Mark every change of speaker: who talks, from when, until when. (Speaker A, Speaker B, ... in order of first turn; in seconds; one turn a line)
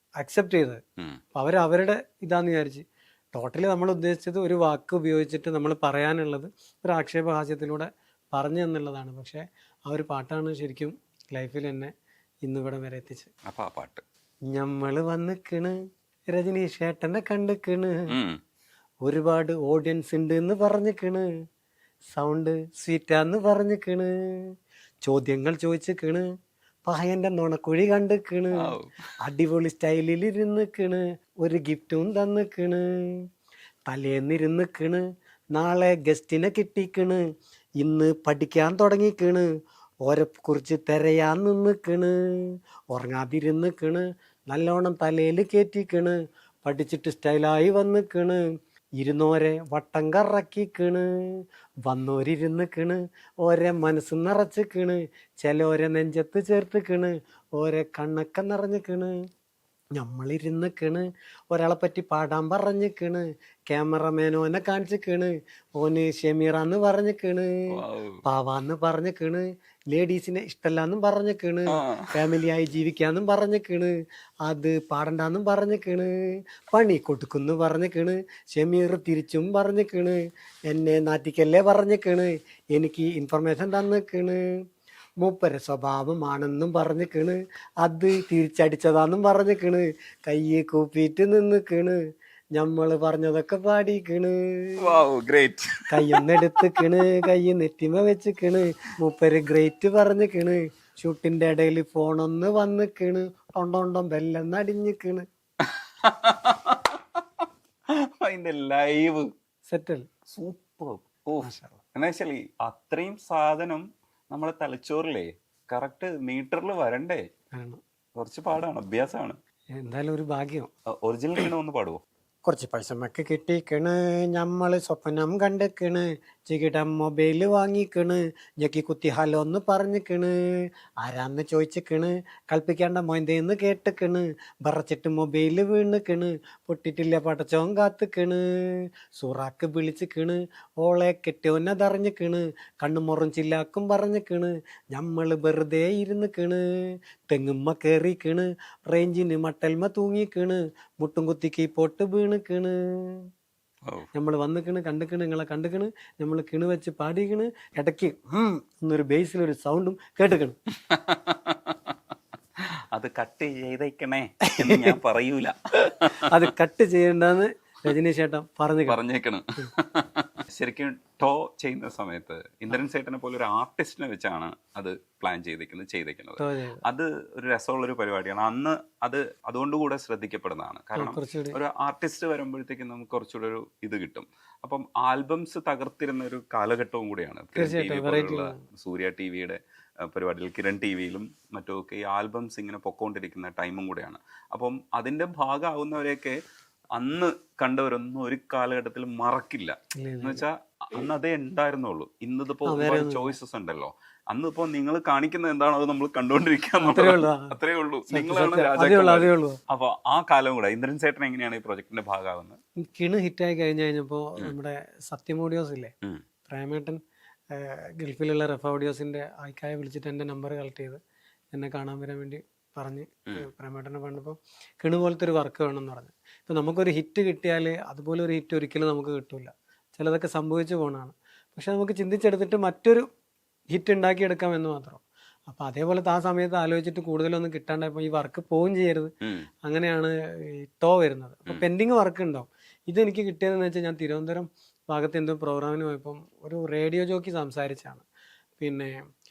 Speaker A: 0.2-0.8
Speaker A: 1.4-11.9
Speaker A: 12.4-13.3
Speaker B: 13.5-14.0
Speaker A: 14.5-15.8
Speaker A: 16.3-18.0
Speaker A: 19.1-21.3
Speaker A: 22.1-24.1
Speaker A: 25.0-26.2
Speaker A: 26.9-33.2
Speaker B: 28.6-29.0
Speaker A: 33.9-35.0
Speaker A: 35.5-37.2
Speaker A: 37.8-39.5
Speaker A: 40.0-42.1
Speaker A: 42.9-48.4
Speaker A: 49.0-59.1
Speaker A: 60.0-67.5
Speaker B: 67.7-68.2
Speaker A: 68.2-73.9
Speaker B: 71.7-72.1
Speaker A: 74.5-76.1
Speaker A: 76.7-84.4
Speaker A: 85.2-92.0
Speaker A: 92.6-94.8
Speaker B: 94.8-97.0
Speaker A: 95.9-105.3
Speaker B: 105.6-109.3
Speaker A: 109.7-110.1
Speaker B: 110.3-117.2
Speaker A: 111.4-111.8
Speaker A: 117.5-117.8
Speaker B: 118.2-119.4
Speaker A: 119.8-120.7
Speaker B: 121.0-122.0
Speaker A: 122.5-130.3
Speaker A: 131.0-138.4
Speaker A: 139.2-146.6
Speaker A: 147.3-153.2
Speaker A: 154.2-160.6
Speaker B: 160.9-161.9
Speaker B: 162.9-166.2
Speaker A: 164.6-164.9
Speaker A: 166.3-169.0
Speaker B: 168.9-196.4
Speaker A: 176.4-176.8
Speaker A: 181.0-181.6
Speaker A: 187.6-188.6
Speaker B: 197.0-212.6
Speaker A: 200.0-200.4
Speaker A: 202.7-203.4
Speaker A: 206.8-207.5
Speaker A: 208.1-209.6
Speaker A: 212.9-215.9
Speaker A: 216.5-217.0
Speaker A: 217.5-221.0
Speaker A: 221.5-233.1
Speaker A: 233.7-239.1
Speaker A: 239.7-248.1
Speaker A: 248.6-248.9